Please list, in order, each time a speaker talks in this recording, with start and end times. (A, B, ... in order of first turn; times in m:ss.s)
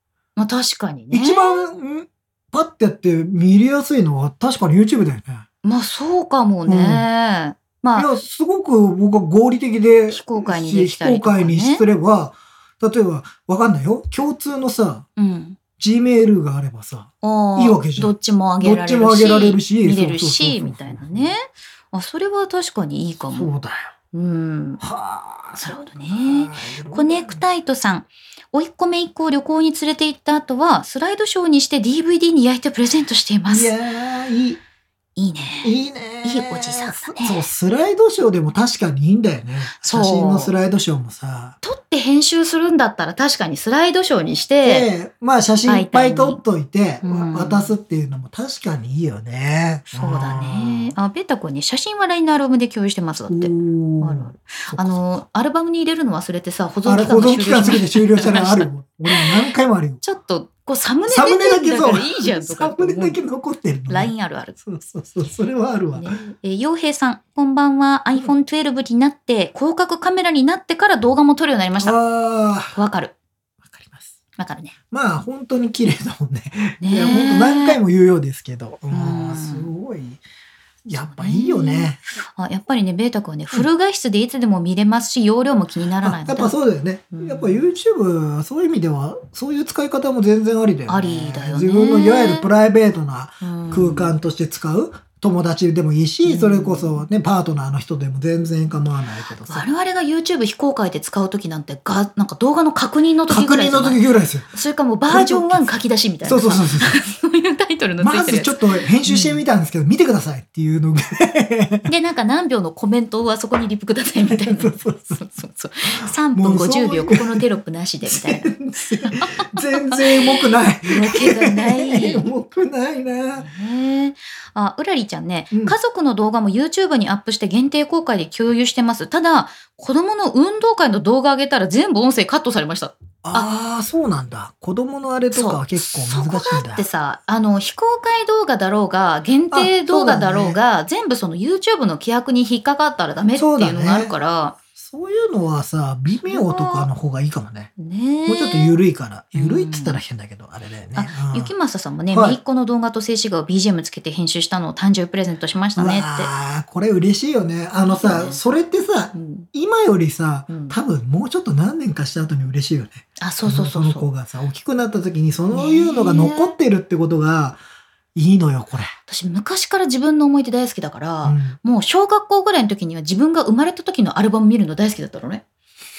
0:00.4-0:01.7 A
0:01.1-0:05.4 B
0:05.6-0:08.1 A
0:06.7-0:07.1 B
0:08.0-0:15.0 B
0:10.1-0:11.8 A
0:15.2-0:15.6 A
0:15.8-0:21.3 B
0:17.2-0:23.5 A
0:23.3-0:23.9 B
0:24.1-0:24.8 A
0:24.8-0:27.4 B
0:25.6-0:33.7 A
0:33.5-0:34.6 B
0:35.2-0:37.4 A
0:35.6-0:41.6 B
0:39.7-0:40.5 A
0:41.6-0:44.9 A
0:44.6-0:50.9 B
0:45.6-0:46.4 A
0:47.0-0:47.7 A
0:49.9-0:59.3 A
0:53.3-0:55.2 B
0:56.8-1:00.0 B
1:00.0-1:03.2 A
1:01.1-1:06.2 B
1:03.9-1:04.5 A
1:05.9-1:12.0 A
1:11.8-1:12.8 B
1:12.7-1:13.1 A
1:13.6-1:14.1 B
1:14.4-1:14.7 A
1:14.9-1:20.2 B
1:16.8-1:17.8 A
1:18.9-1:19.7 A
1:20.8-1:22.0 B
1:21.0-1:26.5 A
1:26.0-1:39.6 B
1:27.1-1:27.6 A
1:30.9-1:32.5 A
1:33.4-1:34.2 A
1:36.2-1:37.0 A
1:39.5-1:49.4 A
1:43.3-1:44.5 B
1:45.1-1:47.0 B
1:48.0-1:51.9 B
1:51.9-1:58.5 A
1:54.2-1:55.3 B
1:55.9-1:57.4 B
1:58.0-2:03.5 B
1:59.0-2:02.3 A
2:03.3-2:13.5 A
2:05.5-2:05.8 B
2:13.2-2:16.8 B
2:15.3-2:24.6 A
2:19.5-2:20.6 B
2:23.4-2:24.1 B
2:24.7-2:27.7 B
2:26.2-2:26.9 A
2:27.8-2:28.7 A
2:28.2-2:31.5 B
2:29.3-2:30.0 A
2:30.9-2:36.3 A
2:32.1-2:32.4 B
2:35.8-2:47.6 B
2:37.9-2:38.4 A
2:39.1-2:39.5 A
2:40.5-2:40.8 A
2:43.2-2:44.0 A
2:45.5-2:46.5 A
2:48.1-2:48.9 B
2:49.1-2:55.4 A
2:51.2-2:51.6 B